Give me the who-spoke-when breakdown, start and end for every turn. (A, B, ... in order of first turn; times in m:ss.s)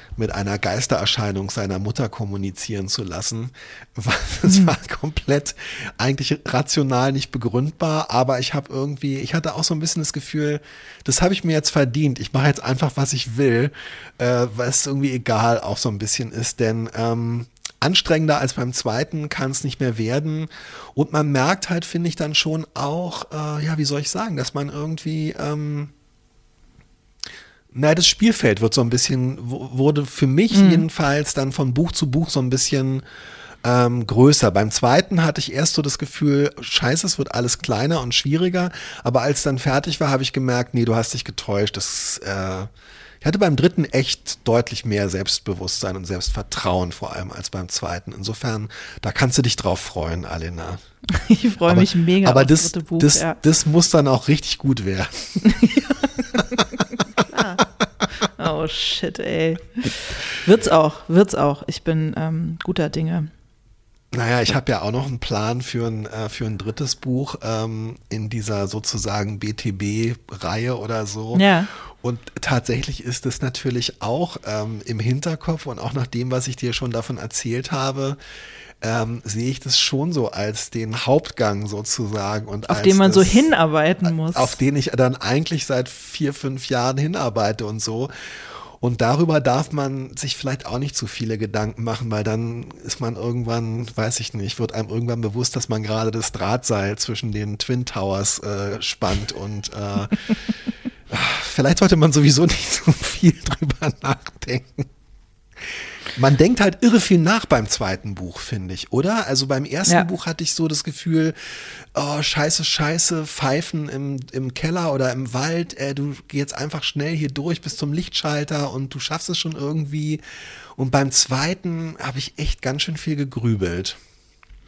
0:00.2-0:25.9 A
0:04.5-0:04.7 B
0:27.7-0:33.0 A
0:30.5-0:30.8 B
0:33.6-0:42.7 A
0:43.2-0:50.8 A
0:51.1-0:53.4 B
0:51.6-0:55.5 A
0:55.4-0:57.6 B
0:58.2-1:03.3 B
1:04.1-1:18.2 A
1:11.3-1:11.7 B
1:18.8-1:23.5 A
1:22.7-1:24.6 B
1:24.0-1:40.3 A
1:41.1-1:44.9 A
1:46.1-2:00.2 A
2:00.8-2:04.0 A